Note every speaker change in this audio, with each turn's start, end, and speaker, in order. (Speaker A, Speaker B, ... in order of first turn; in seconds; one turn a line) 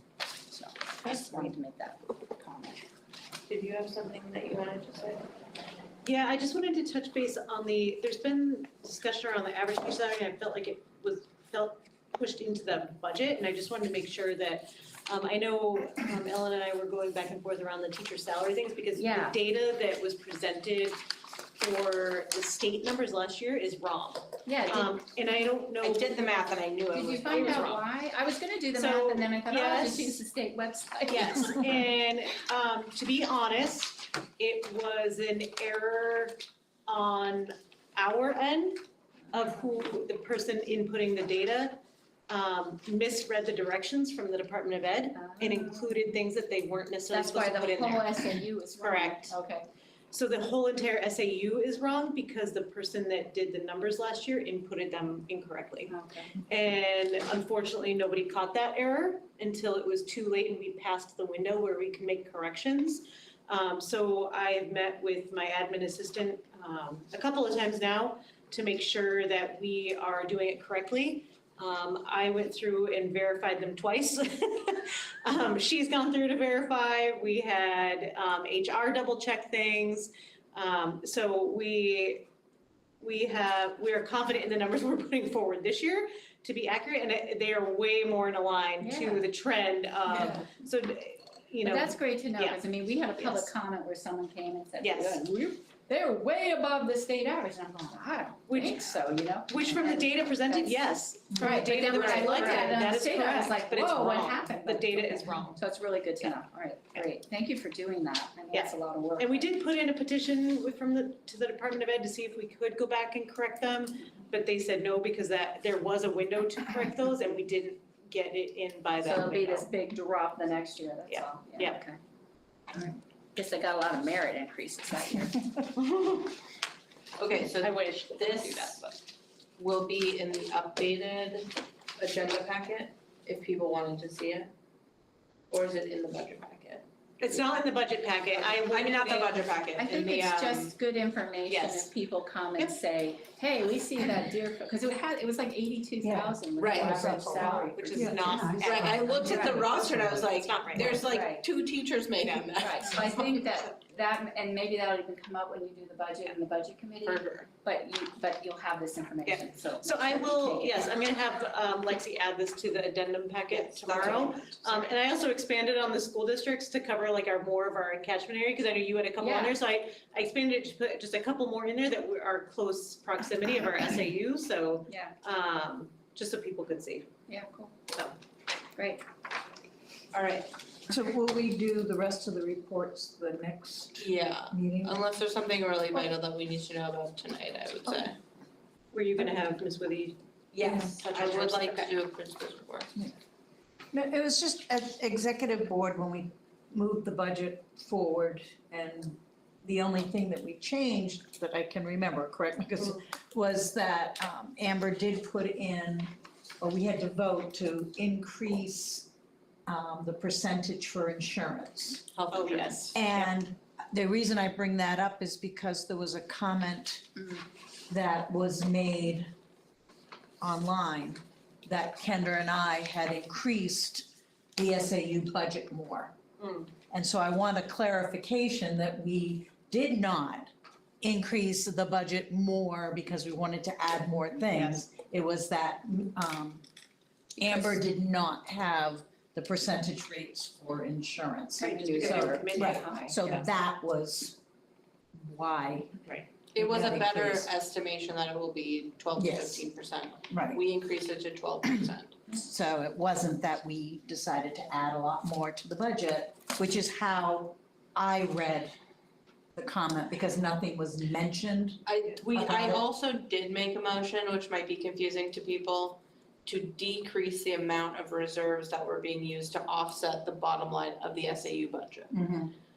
Speaker A: 0.5-2.8
Speaker B: 1.1-1.5
Speaker B: 3.5-5.3
Speaker C: 6.0-21.0
Speaker A: 18.9-19.4
Speaker C: 21.6-26.5
Speaker A: 24.4-25.0
Speaker B: 25.8-27.8
Speaker A: 26.9-31.9
Speaker C: 27.2-27.8
Speaker C: 28.7-30.2
Speaker B: 31.1-31.4
Speaker C: 31.1-49.4
Speaker A: 39.4-39.7
Speaker A: 45.1-45.9
Speaker A: 47.1-49.7
Speaker C: 50.1-55.9
Speaker A: 55.9-56.4
Speaker C: 56.4-82.3
Speaker C: 83.0-93.5
Speaker A: 88.8-89.2
Speaker A: 90.1-90.5
Speaker A: 91.6-100.8
Speaker C: 94.8-95.2
Speaker C: 98.5-105.6
Speaker A: 101.3-109.5
Speaker B: 101.8-102.8
Speaker C: 108.5-119.7
Speaker A: 119.0-122.0
Speaker C: 121.1-121.8
Speaker A: 122.7-125.6
Speaker B: 125.8-126.3
Speaker B: 127.2-128.8
Speaker C: 127.6-128.9
Speaker B: 129.6-134.5
Speaker B: 135.5-137.7
Speaker C: 137.2-139.5
Speaker B: 138.3-140.7
Speaker A: 139.8-148.4
Speaker C: 141.5-141.9
Speaker D: 146.0-149.5
Speaker B: 146.6-147.1
Speaker C: 147.0-151.1
Speaker B: 148.5-153.3
Speaker A: 149.2-149.6
Speaker A: 150.9-151.4
Speaker A: 152.6-160.9
Speaker B: 157.0-157.5
Speaker C: 159.2-177.1
Speaker B: 163.5-164.9
Speaker A: 169.2-169.6
Speaker A: 174.9-175.1
Speaker A: 177.3-177.7
Speaker A: 178.8-179.0
Speaker B: 180.1-180.5
Speaker D: 180.9-185.0
Speaker B: 184.0-188.2
Speaker C: 188.9-191.9
Speaker B: 190.5-192.9
Speaker D: 193.9-209.1
Speaker D: 209.7-212.1
Speaker B: 212.1-212.9
Speaker C: 212.3-213.3
Speaker D: 212.9-219.3
Speaker D: 220.4-226.2
Speaker C: 226.4-226.7
Speaker D: 226.9-230.5
Speaker D: 231.0-236.6
Speaker C: 234.5-234.8
Speaker A: 237.4-237.8
Speaker D: 237.4-244.4
Speaker C: 241.6-243.5
Speaker A: 241.6-243.2
Speaker D: 245.1-246.0
Speaker B: 246.5-252.2
Speaker D: 246.6-247.5
Speaker D: 249.2-249.7
Speaker D: 250.3-250.6
Speaker D: 251.6-258.7
Speaker D: 259.6-262.9
Speaker B: 261.8-272.1
Speaker D: 272.1-272.5